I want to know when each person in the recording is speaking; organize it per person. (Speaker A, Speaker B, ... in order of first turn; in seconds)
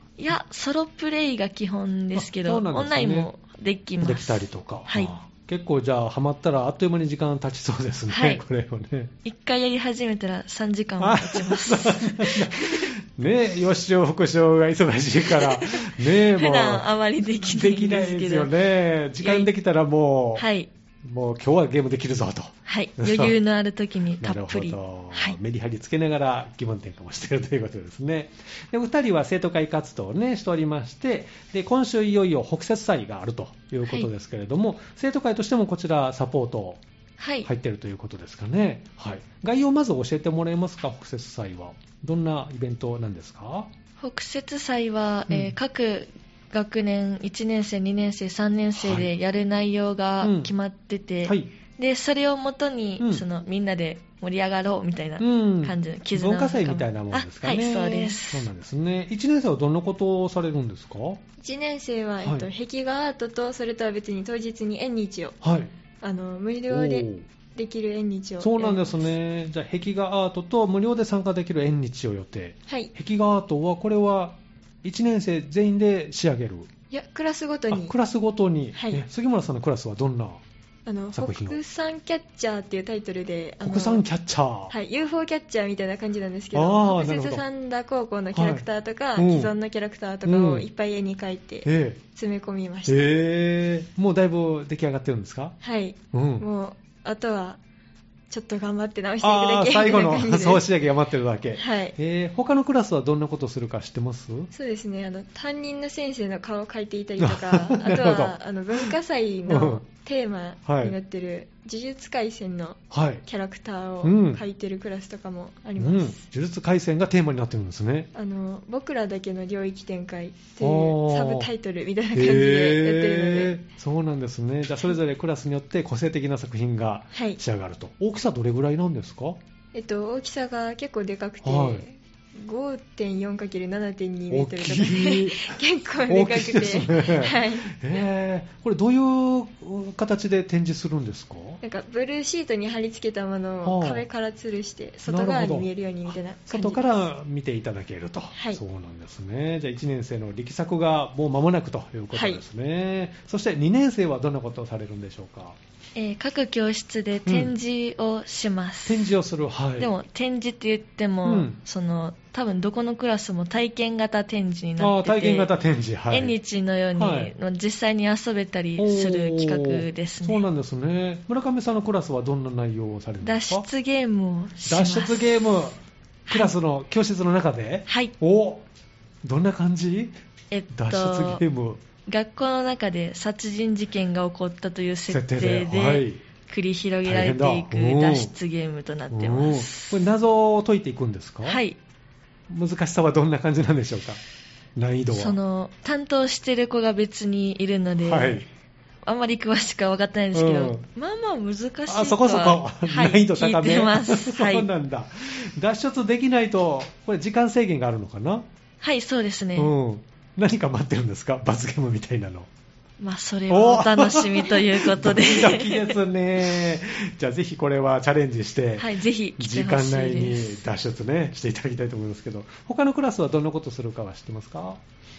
Speaker A: 0.2-5.1, 8.1-8.4, 9.2-12.9, 15.3-18.5, 19.2-19.5, 20.4-20.7, 22.6-25.4, 37.2-37.5, 44.0-58.5, 155.9-159.1, 159.8-165.5, 166.1-170.4, 173.2-175.4, 176.3-176.5, 177.9-178.1, 180.5-181.4, 182.1-190.0, 191.4-191.8, 195.1-198.5, 199.0-204.7, 208.8-209.7, 213.0-216.0, 218.8-220.6
Speaker B: 2.1-3.3, 4.0-9.1, 11.0-20.5, 21.0-23.4, 24.2-36.8, 37.4-43.7, 45.3-45.5, 48.8-49.1, 50.2-50.5, 51.2-51.5, 53.0-53.2, 55.2-61.2, 62.2-62.5, 65.4-65.7, 66.7-67.2, 68.4-76.7, 77.7-80.4, 81.1-81.6, 83.6-84.7, 86.5-87.4, 88.3-88.6, 89.2-89.5, 90.2-90.7, 91.6-92.0, 92.8-95.6, 96.1-96.5, 99.2-104.5, 107.2-108.9, 109.5-109.8, 110.7-111.0, 112.9-113.2, 114.0-114.4, 115.8-118.1, 120.6-121.5, 122.1-129.4, 131.4-131.8, 134.3-141.6, 143.6-144.1, 145.1-155.6, 157.2-157.5, 158.8-159.9, 161.2-161.6, 164.8-166.3, 167.0-167.3, 168.8-173.7, 174.6-178.7, 179.2-180.1, 180.7-181.8, 185.1-186.2, 187.0-188.3, 189.1-191.6, 192.5-194.2, 194.8-195.4, 198.0-198.4, 200.3-200.8, 201.9-208.5, 209.6-212.5, 213.5-224.8
Speaker C: 61.4-65.4, 66.0-69.1, 76.9-77.9, 78.7-79.0, 80.8-84.0, 84.7-93.2, 95.6-97.6, 98.3-100.6, 101.5-101.9, 104.5-116.2, 118.1-123.6, 127.1-127.4, 129.7-137.8, 141.6-147.0, 148.3-148.6, 152.1-152.4